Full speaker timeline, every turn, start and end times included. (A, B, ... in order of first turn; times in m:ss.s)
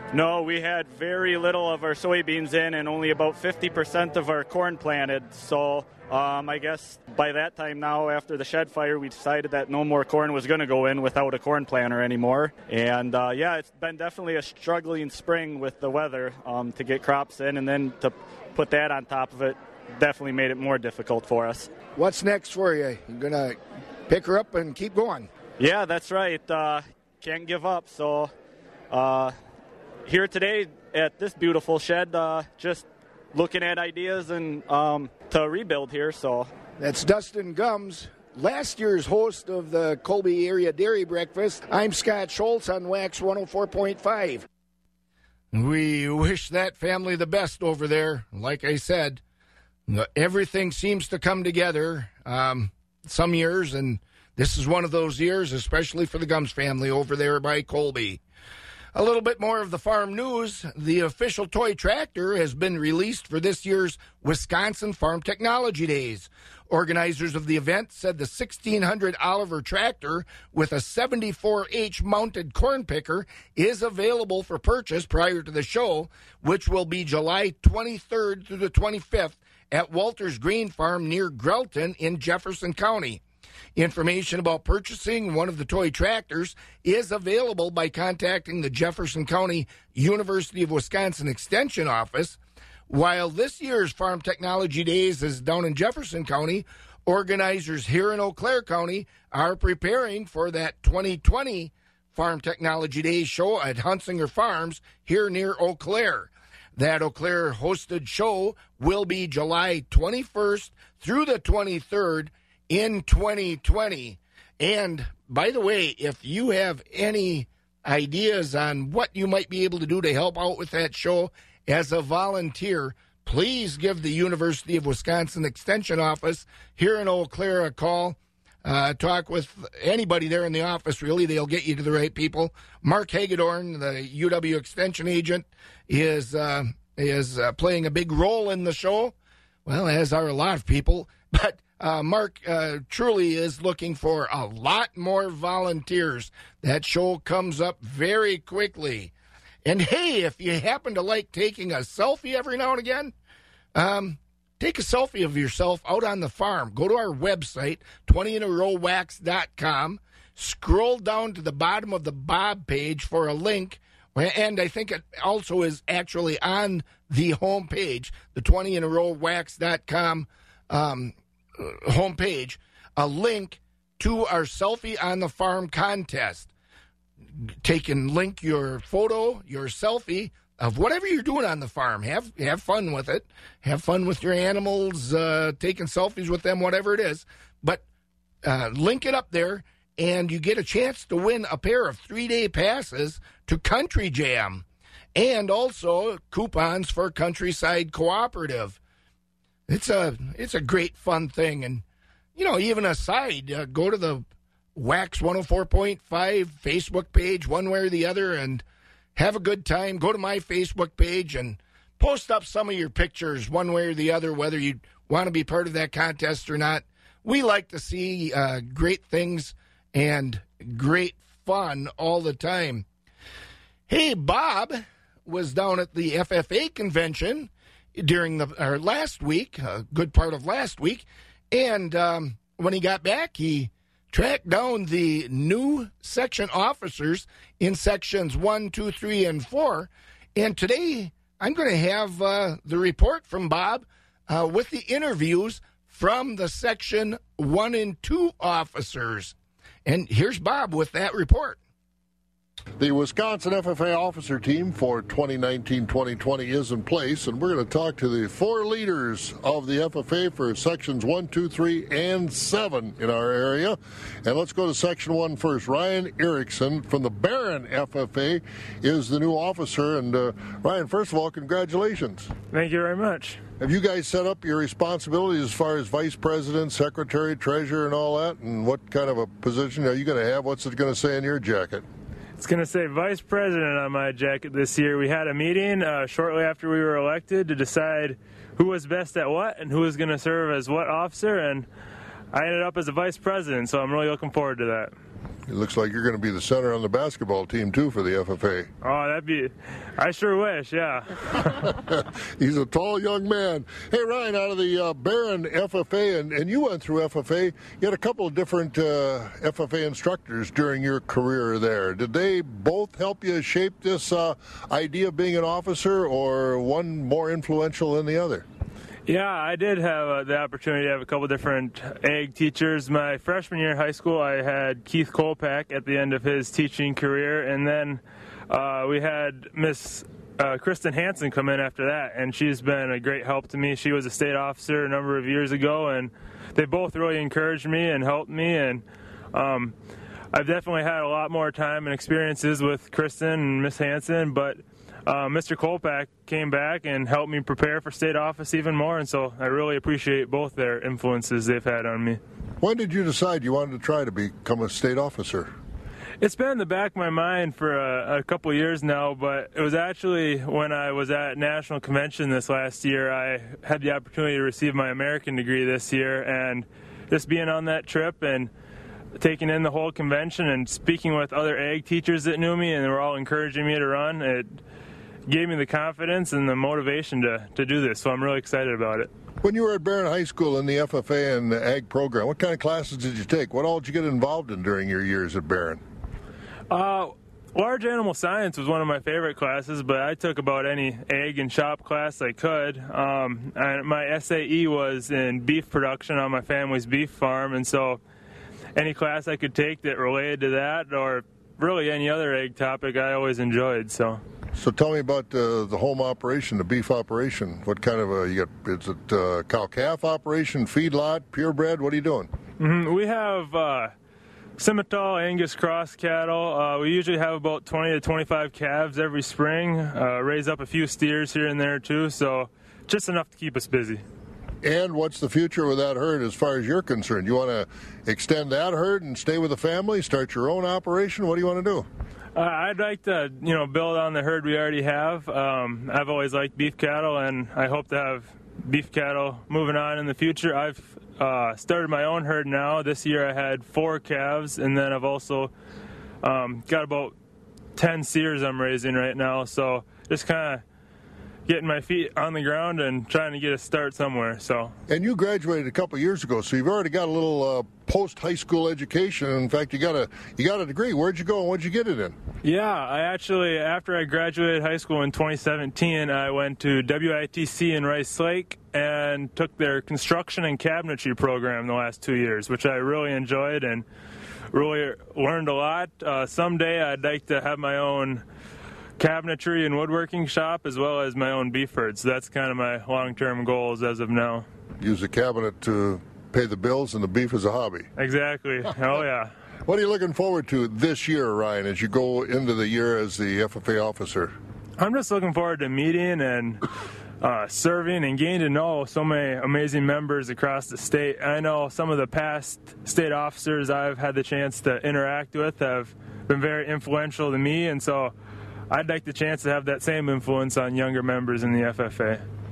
0:00.1-0:21.7 A
0:22.0-0:25.3 B
0:25.6-0:28.3 A
0:28.9-0:29.3 A
0:30.0-0:36.5 A
0:36.8-0:44.5 B
0:45.5-0:49.2 B
0:49.9-0:58.2 B
0:58.9-1:23.2 B
1:23.8-1:32.4 B
1:32.9-2:19.1 B
2:19.6-2:29.1 B
2:29.6-2:33.1 B
2:33.7-2:56.5 B
2:57.4-3:07.8 B
3:08.4-3:14.6 B
3:15.2-3:18.8 B
3:19.7-3:21.8 B
3:22.4-3:24.2 B
3:24.8-3:28.6 B
3:29.2-3:42.8 B
3:43.9-4:09.3 B
4:09.8-4:11.6 B
4:12.8-4:32.3 C
4:32.5-4:33.4 D
4:33.6-4:41.8 C
4:42.4-4:51.7 D
4:52.3-4:54.9 D
4:55.5-4:58.7 C
4:58.8-5:01.1 D
5:01.9-5:18.4 C
5:19.0-5:39.7 D
5:40.3-5:52.2 D
5:52.6-5:55.5 C
5:56.2-6:08.5 D
6:09.2-6:14.6 D
6:15.3-6:19.1 D
6:19.4-6:25.8 C
6:26.7-6:38.0 D
6:38.8-6:44.2 D
6:44.6-6:52.3 C
6:52.6-6:53.9 D
6:54.6-7:04.0 D
7:04.6-7:11.9 C
7:12.4-7:25.5 D
7:26.2-7:27.1 D
7:27.8-7:30.6 D
7:31.4-7:34.7 D
7:34.9-7:42.2 C
7:42.4-7:53.8 D
7:54.5-7:58.2 D
7:59.0-8:04.4 D
8:04.8-8:07.9 C
8:08.0-8:09.3 D
8:09.7-8:14.3 C
8:14.8-8:16.6 D
8:17.2-8:28.1 D
8:28.7-8:32.2 D